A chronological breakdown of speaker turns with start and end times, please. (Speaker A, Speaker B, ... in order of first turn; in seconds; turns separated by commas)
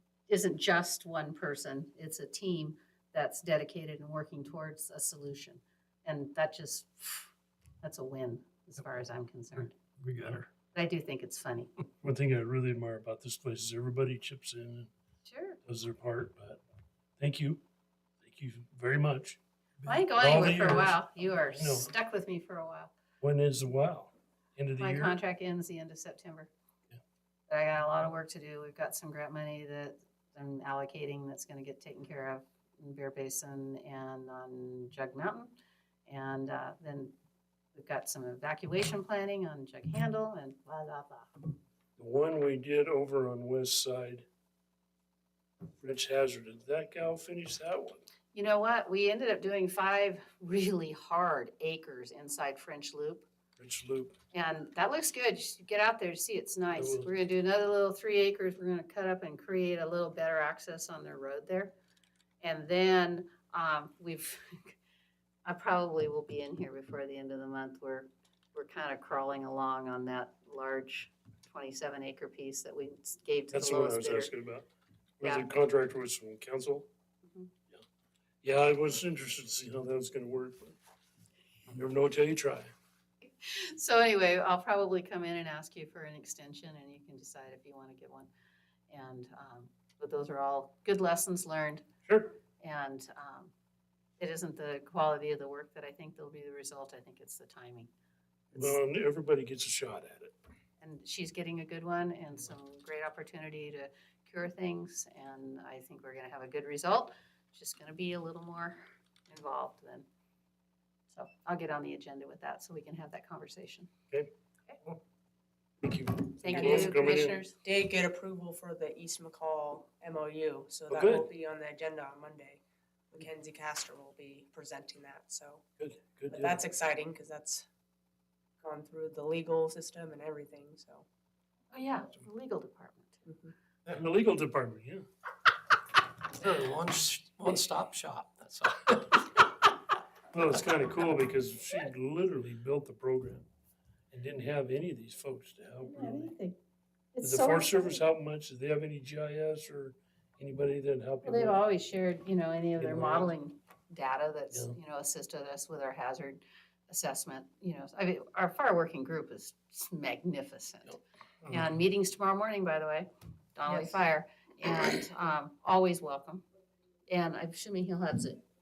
Speaker A: 0.3-9.7, Speaker B: 10.0-10.5, Speaker A: 10.7-11.7, Speaker C: 12.0-14.9, Speaker A: 15.2-15.6, Speaker C: 15.7-16.6, Speaker C: 17.2-17.6, Speaker C: 18.2-19.4, Speaker A: 19.8-22.9, Speaker C: 20.1-21.9, Speaker C: 23.2-25.2, Speaker A: 24.8-26.5, Speaker A: 27.5-35.5, Speaker A: 36.1-37.1, Speaker A: 37.7-41.3, Speaker C: 42.0-44.2, Speaker C: 45.8-48.0, Speaker A: 48.3-53.2, Speaker C: 53.6-54.2, Speaker A: 54.3-61.7, Speaker C: 56.7-57.1, Speaker A: 62.4-64.7, Speaker A: 65.5-74.3, Speaker C: 73.5-74.7, Speaker C: 75.2-76.9, Speaker A: 75.2-75.5, Speaker C: 78.4-80.8, Speaker C: 81.7-82.7, Speaker A: 83.4-88.3, Speaker A: 88.9-91.8, Speaker C: 92.1-92.3, Speaker A: 92.6-93.5, Speaker A: 94.2-97.9, Speaker A: 98.5-98.8, Speaker C: 98.5-100.3, Speaker A: 100.8-110.0, Speaker A: 111.1-113.9, Speaker C: 115.8-117.5, Speaker A: 116.4-117.5, Speaker D: 116.5-125.6, Speaker C: 120.9-121.3, Speaker C: 125.8-126.6, Speaker D: 126.3-127.7, Speaker D: 128.6-131.0, Speaker A: 131.7-133.2, Speaker D: 133.3-133.5, Speaker C: 133.9-135.1, Speaker B: 136.3-139.0, Speaker C: 140.3-143.5, Speaker C: 144.1-146.3, Speaker A: 145.8-146.6, Speaker A: 147.1-148.0, Speaker C: 147.2-151.6, Speaker A: 151.2-166.4, Speaker C: 152.8-153.3, Speaker D: 163.7-164.0, Speaker A: 167.1-168.4